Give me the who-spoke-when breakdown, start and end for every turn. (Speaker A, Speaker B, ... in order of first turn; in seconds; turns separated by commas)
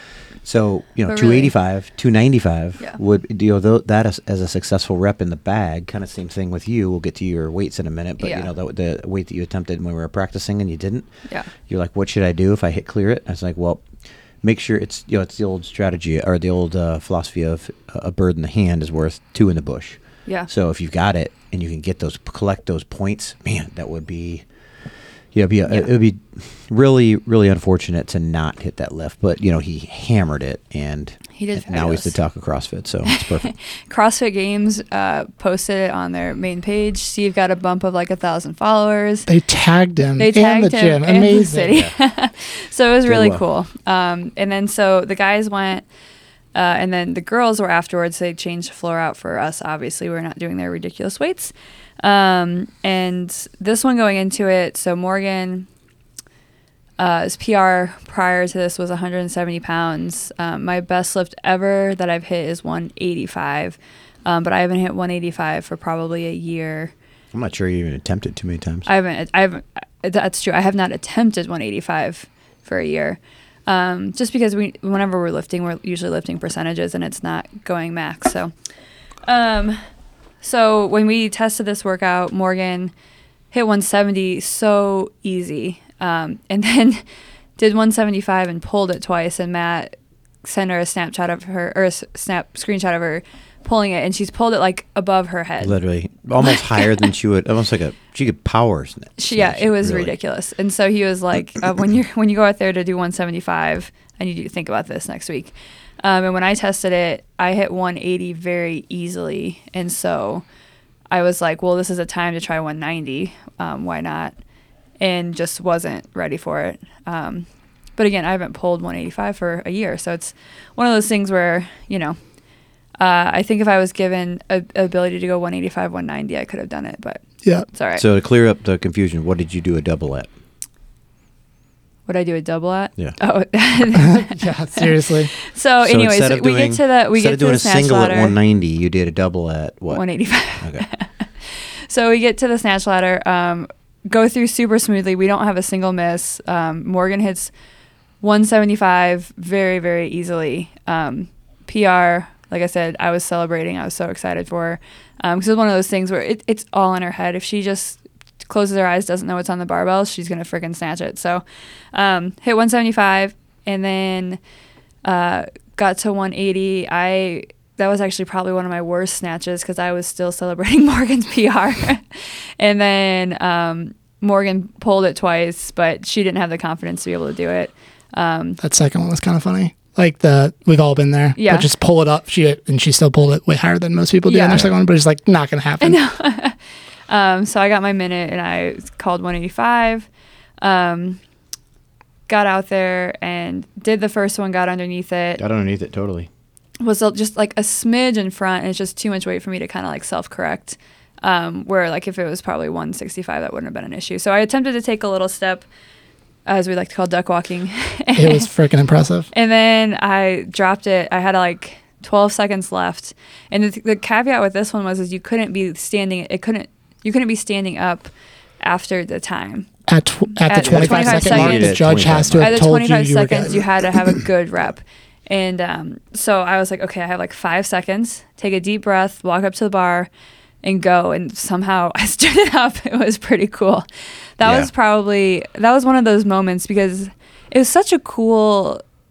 Speaker A: 0.4-11.1, Speaker B: 1.1-1.5, Speaker B: 8.2-8.5, Speaker A: 11.7-13.8, Speaker A: 14.4-24.4, Speaker A: 25.3-33.5, Speaker B: 31.3-32.1, Speaker B: 33.1-39.3, Speaker C: 39.3-41.7, Speaker B: 40.2-45.9, Speaker A: 43.0-43.4, Speaker B: 46.5-55.7, Speaker B: 57.0-66.9, Speaker A: 67.3-68.9, Speaker B: 68.8-78.5, Speaker B: 79.2-79.8, Speaker B: 80.4-82.9, Speaker B: 83.5-87.0, Speaker B: 87.6-95.7, Speaker A: 95.6-100.1, Speaker B: 96.4-97.1, Speaker B: 99.2-110.4, Speaker B: 111.1-114.3, Speaker B: 115.0-122.2, Speaker B: 123.0-127.2, Speaker B: 127.7-128.0, Speaker A: 128.0-130.3, Speaker B: 132.1-138.3, Speaker C: 134.0-135.3, Speaker A: 135.8-140.0, Speaker B: 139.9-147.5, Speaker B: 148.2-164.4, Speaker B: 165.0-178.6, Speaker C: 178.6-186.0, Speaker B: 181.4-181.7, Speaker B: 184.3-184.7, Speaker B: 185.8-186.6, Speaker B: 187.1-190.1, Speaker B: 190.6-191.2, Speaker B: 192.3-195.4, Speaker A: 195.4-196.3, Speaker B: 196.8-205.7, Speaker B: 206.4-208.5, Speaker C: 208.1-209.3, Speaker B: 209.3-218.1, Speaker B: 218.6-219.7, Speaker C: 219.9-224.2, Speaker B: 220.4-230.1, Speaker A: 220.6-222.6, Speaker B: 230.6-233.9, Speaker B: 234.4-238.8, Speaker A: 234.4-234.7